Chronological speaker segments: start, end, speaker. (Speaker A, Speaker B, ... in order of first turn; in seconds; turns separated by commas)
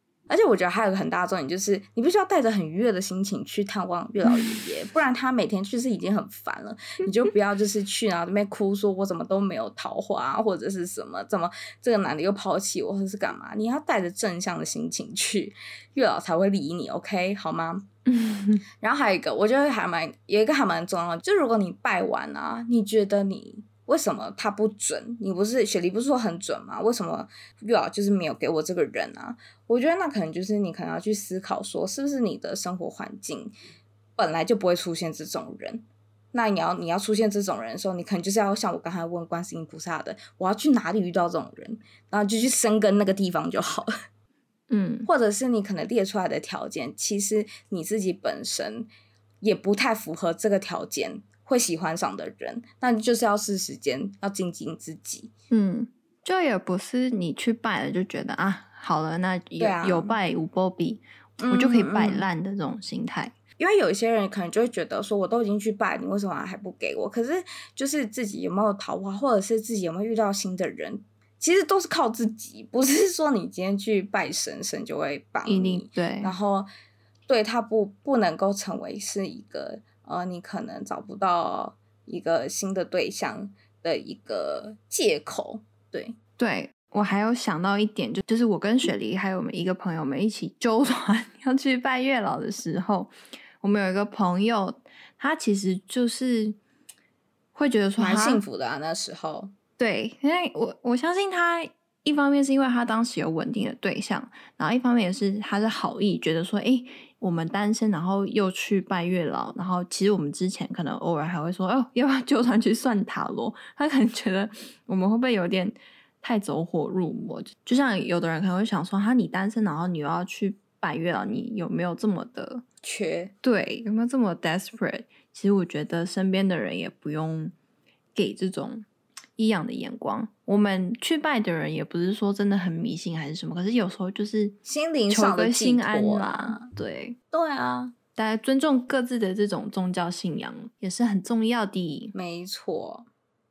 Speaker A: 0.3-17.9, Speaker B: 4.3-4.5, Speaker B: 18.1-18.6, Speaker A: 18.8-33.5, Speaker A: 34.2-43.9, Speaker B: 44.7-45.1, Speaker A: 45.0-48.9, Speaker A: 49.4-55.3, Speaker B: 55.5-63.3, Speaker A: 59.6-60.2, Speaker A: 61.4-62.2, Speaker A: 63.6-76.7, Speaker B: 75.5-76.3, Speaker A: 77.3-86.2, Speaker B: 86.4-96.6, Speaker B: 97.5-98.4, Speaker A: 98.0-99.5, Speaker B: 99.8-122.6, Speaker A: 122.8-123.3, Speaker B: 123.4-127.5, Speaker B: 128.1-128.8, Speaker B: 129.4-134.6, Speaker A: 134.7-136.7, Speaker B: 135.1-137.2, Speaker A: 137.3-137.9, Speaker B: 138.2-142.1, Speaker A: 142.1-143.1